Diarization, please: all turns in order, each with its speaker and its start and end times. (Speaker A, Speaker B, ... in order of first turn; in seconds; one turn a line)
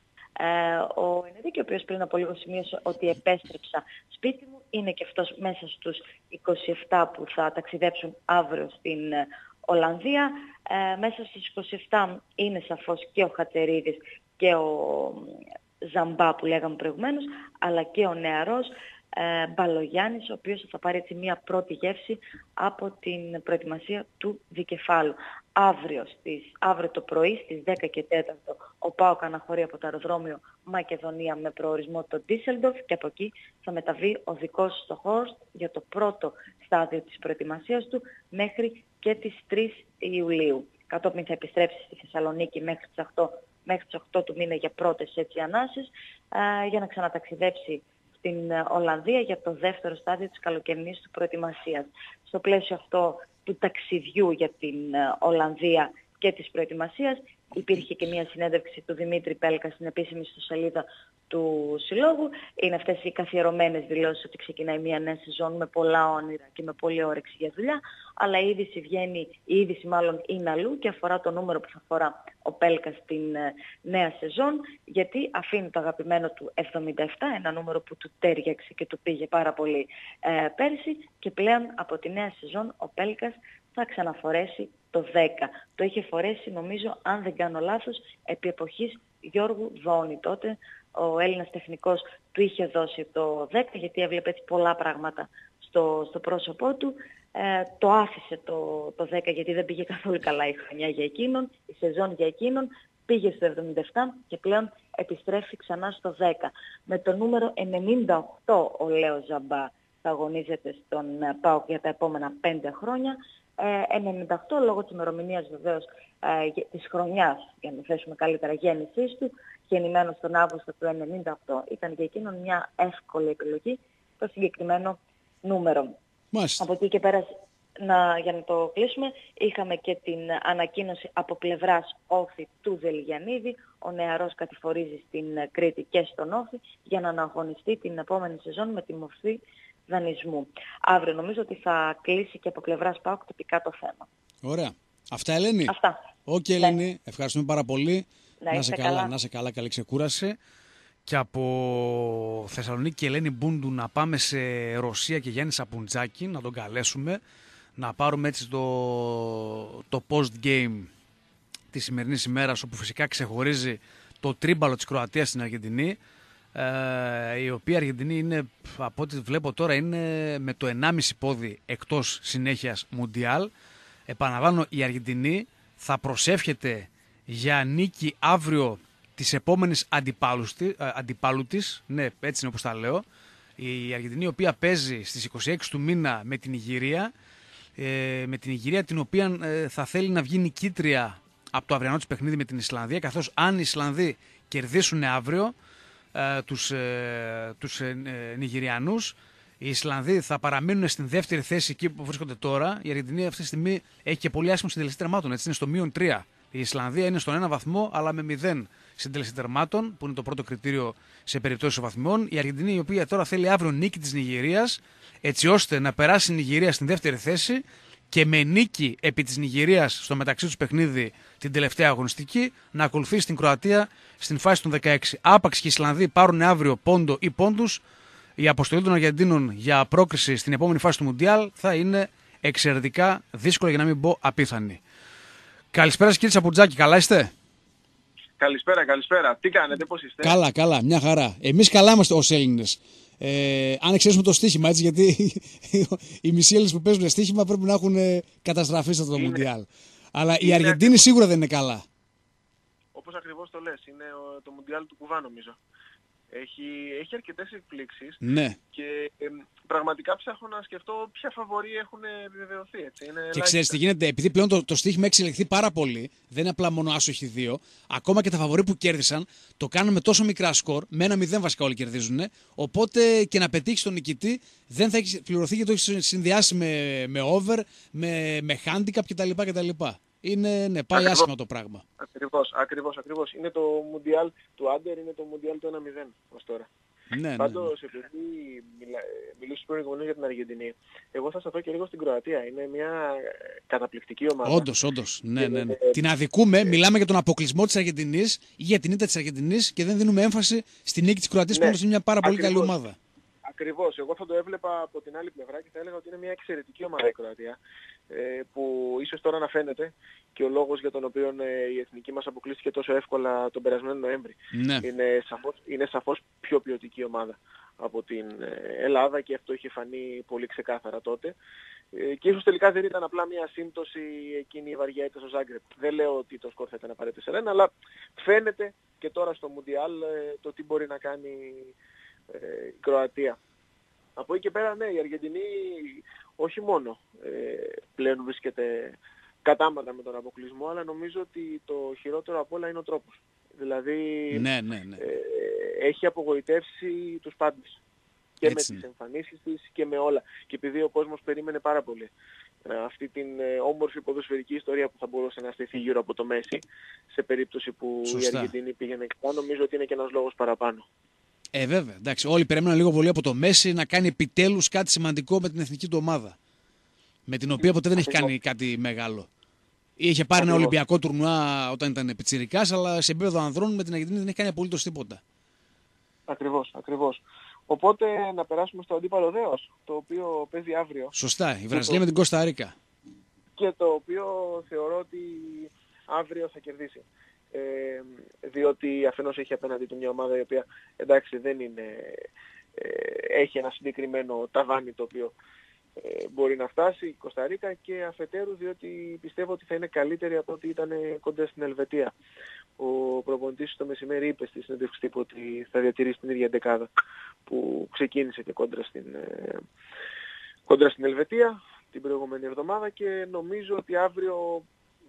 Speaker A: 0.4-125.9
Speaker B: 126.3-126.6
Speaker A: 126.6-144.1
Speaker B: 144.4-145.7
Speaker A: 145.7-146.0
Speaker B: 146.3-150.4
Speaker A: 148.4-149.1
Speaker B: 151.1-157.2
Speaker B: 157.8-160.9
Speaker B: 161.7-166.0
Speaker B: 166.5-173.5
Speaker B: 174.1-183.0
Speaker B: 183.6-187.1
Speaker B: 187.8-195.5
Speaker B: 196.1-227.8
Speaker B: 228.4-234.8
Speaker B: 235.7-237.3
Speaker C: 238.4-240.3
Speaker B: 240.2-251.8
Speaker C: 249.1-249.5
Speaker C: 250.4-251.1
Speaker C: 252.9-255.6
Speaker C: 256.3-258.2
Speaker B: 258.2-258.6
Speaker C: 258.7-263.7
Speaker B: 263.3-281.8
Speaker C: 280.9-281.2
Speaker C: 282.0-286.7
Speaker B: 287.1-287.7
Speaker C: 287.4-294.7
Speaker B: 294.4-303.0
Speaker C: 295.4-295.9
Speaker C: 301.5-302.7
Speaker C: 303.4-307.6
Speaker C: 308.1-321.3
Speaker B: 314.5-314.9
Speaker C: 321.9-331.7
Speaker C: 332.3-333.4
Speaker C: 334.1-344.4
Speaker B: 344.3-345.0
Speaker C: 345.0-347.8
Speaker C: 348.4-352.1
Speaker B: 348.4-348.8
Speaker C: 352.6-360.9
Speaker B: 358.0-358.5
Speaker B: 361.5-366.4
Speaker B: 367.3-369.3
Speaker C: 368.0-368.3
Speaker B: 370.0-375.2
Speaker C: 370.4-370.7
Speaker C: 376.3-381.1
Speaker B: 381.1-382.7
Speaker C: 381.7-382.0
Speaker C: 383.6-392.2
Speaker C: 392.8-395.3
Speaker C: 396.0-402.1
Speaker C: 402.8-406.9
Speaker C: 407.5-409.6
Speaker C: 410.7-414.6